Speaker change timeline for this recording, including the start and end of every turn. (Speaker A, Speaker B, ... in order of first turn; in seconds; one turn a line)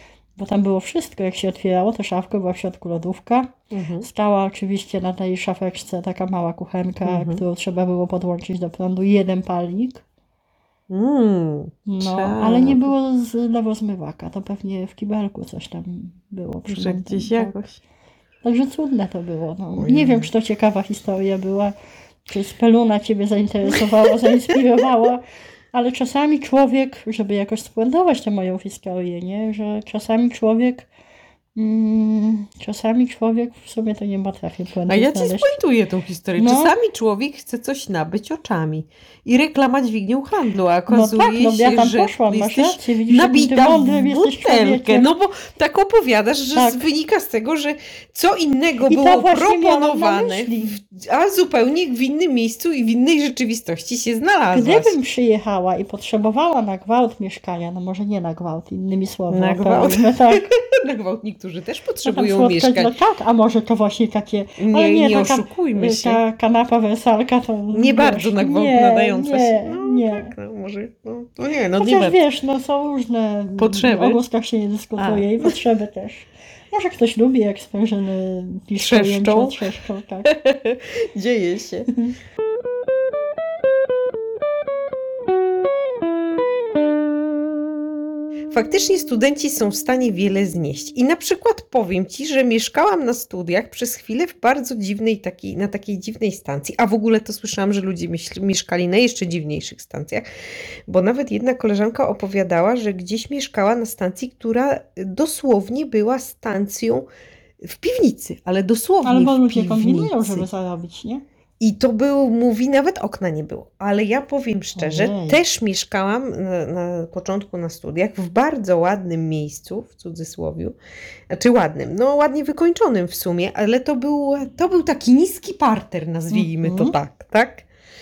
Speaker A: 0.4-10.0
Speaker B: 3.7-4.1
Speaker B: 7.0-7.4
Speaker B: 10.9-12.9
Speaker A: 11.9-17.6
Speaker B: 16.7-17.8
Speaker A: 18.4-21.8
Speaker B: 19.8-20.3
Speaker A: 22.3-30.9
Speaker B: 23.7-24.6
Speaker A: 31.6-35.5
Speaker B: 34.9-55.0
Speaker A: 36.4-36.7
Speaker A: 40.9-45.1
Speaker A: 46.5-46.9
Speaker A: 48.8-50.8
Speaker A: 54.5-60.5
Speaker B: 59.3-62.9
Speaker A: 62.0-70.3
Speaker B: 64.6-66.2
Speaker B: 67.7-72.2
Speaker A: 71.8-80.3
Speaker B: 73.6-74.2
Speaker B: 75.0-75.6
Speaker B: 78.8-79.7
Speaker B: 80.3-81.9
Speaker A: 81.9-82.2
Speaker B: 88.5-100.2
Speaker B: 100.9-107.1
Speaker B: 107.6-110.5
Speaker A: 109.0-111.2
Speaker B: 111.6-120.8
Speaker A: 114.8-115.4
Speaker B: 121.3-127.7
Speaker A: 126.3-127.0